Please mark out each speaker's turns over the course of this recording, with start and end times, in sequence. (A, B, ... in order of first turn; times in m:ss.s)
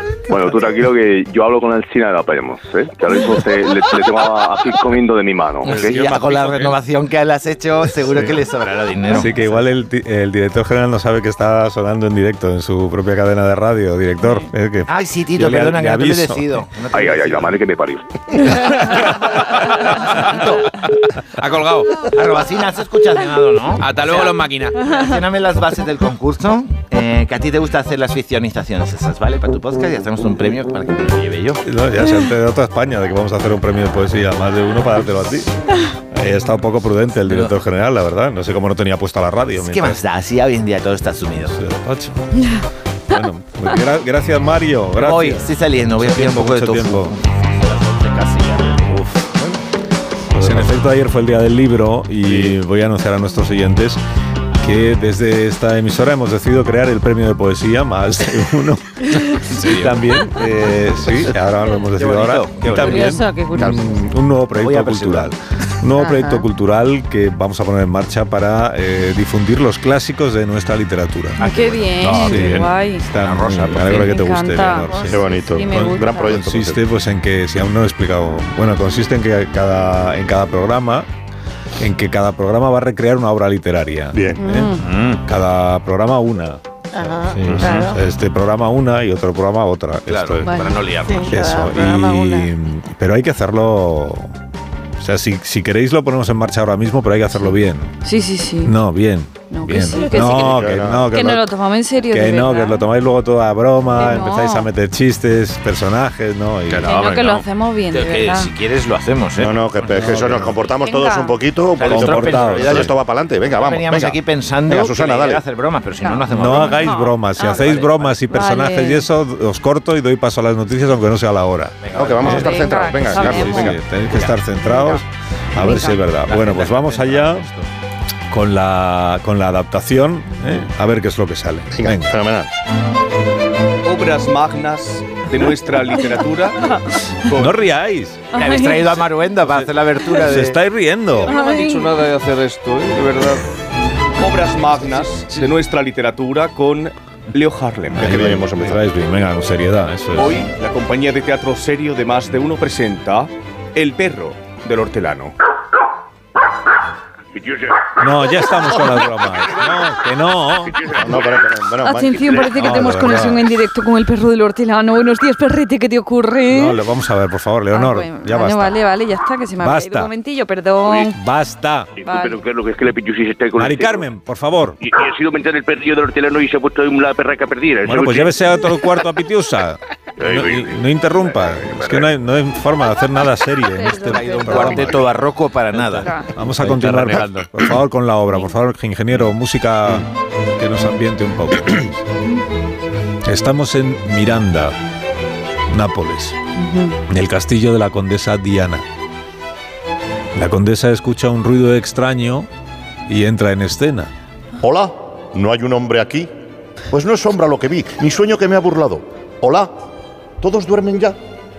0:00.3-0:06.1 A
0:05.6-0:06.7 B
0:05.6-0:09.7 C
0:09.1-0:16.6 D
0:14.9-0:17.6 C
0:16.9-0:18.0 A
0:20.1-0:20.6 C
0:21.4-0:22.1 B
0:22.1-0:31.6 C
0:23.8-0:24.8 B
0:31.6-0:35.5 D
0:36.1-0:40.0 D
0:37.2-0:37.5 C
0:39.6-0:41.6 C
0:41.4-0:42.3 D
0:43.1-0:47.2 D
0:45.0-0:49.1 C
0:50.3-0:54.0 D
0:54.6-1:11.4 D
1:01.9-1:03.7 C
1:02.8-1:03.8 E
1:04.5-1:05.3 C
1:11.4-1:13.0 F
1:11.4-1:14.1 C
1:12.0-1:21.1 D
1:13.9-1:16.3 F
1:15.0-1:16.8 G
1:21.8-1:26.6 D
1:24.1-1:24.4 G
1:24.4-1:24.8 F
1:24.8-1:25.2 B
1:26.9-1:28.0 E
1:27.2-1:30.5 D
1:30.1-1:31.5 C
1:30.4-1:30.7 F
1:31.0-1:32.4 E
1:31.3-1:34.3 D
1:35.0-1:37.9 D
1:38.0-1:38.7 F
1:38.6-1:41.5 D
1:39.5-1:42.8 F
1:40.2-1:41.1 G
1:42.1-1:47.0 D
1:43.9-1:44.7 F
1:46.7-1:47.4 B
1:46.8-1:48.5 F
1:47.9-1:50.5 C
1:49.4-1:55.4 G
1:50.0-1:50.5 D
1:50.8-1:51.3 F
1:51.7-1:52.9 C
1:51.8-1:52.9 D
1:53.5-1:58.2 C
1:56.3-2:02.6 D
1:56.8-1:57.6 F
1:58.3-1:59.0 F
2:01.8-2:02.5 C
2:01.9-2:03.8 G
2:02.2-2:03.8 F
2:03.1-2:07.5 D
2:04.1-2:04.4 C
2:04.6-2:05.0 F
2:05.6-2:06.0 F
2:05.6-2:07.7 C
2:08.3-2:12.1 D
2:11.7-2:12.5 G
2:13.8-2:16.7 H
2:17.3-2:17.6 H
2:17.3-2:18.2 D
2:18.3-2:19.0 F
2:18.3-2:20.6 C
2:19.4-2:21.3 D
2:21.2-2:21.9 F
2:21.2-2:23.4 H
2:24.2-2:28.1 H
2:27.9-2:30.5 D
2:28.0-2:28.8 G
2:30.2-2:35.3 H
2:37.3-2:37.9 A
2:38.0-2:40.9 D
2:40.7-2:41.5 A
2:40.9-2:42.5 G
2:41.8-2:46.8 F
2:42.1-2:42.4 A
2:42.6-2:43.5 D
2:46.5-2:48.8 D
2:47.7-2:51.1 F
2:49.6-2:50.1 D
2:51.1-2:51.9 D
2:52.0-2:54.0 A
2:52.0-2:52.4 F
2:53.6-2:54.8 D
2:54.8-2:58.3 A
2:57.8-3:05.1 D
3:00.2-3:00.8 A
3:01.4-3:02.1 A
3:03.7-3:04.9 F
3:04.0-3:06.1 C
3:05.7-3:07.6 B
3:06.0-3:06.3 F
3:06.3-3:12.0 D
3:13.2-3:14.8 D
3:15.7-3:16.4 D
3:16.6-3:17.0 F
3:17.1-3:18.8 D
3:20.3-3:22.5 D
3:23.1-3:24.1 D
3:24.6-3:26.3 G
3:26.9-3:29.7 G
3:30.4-3:31.2 G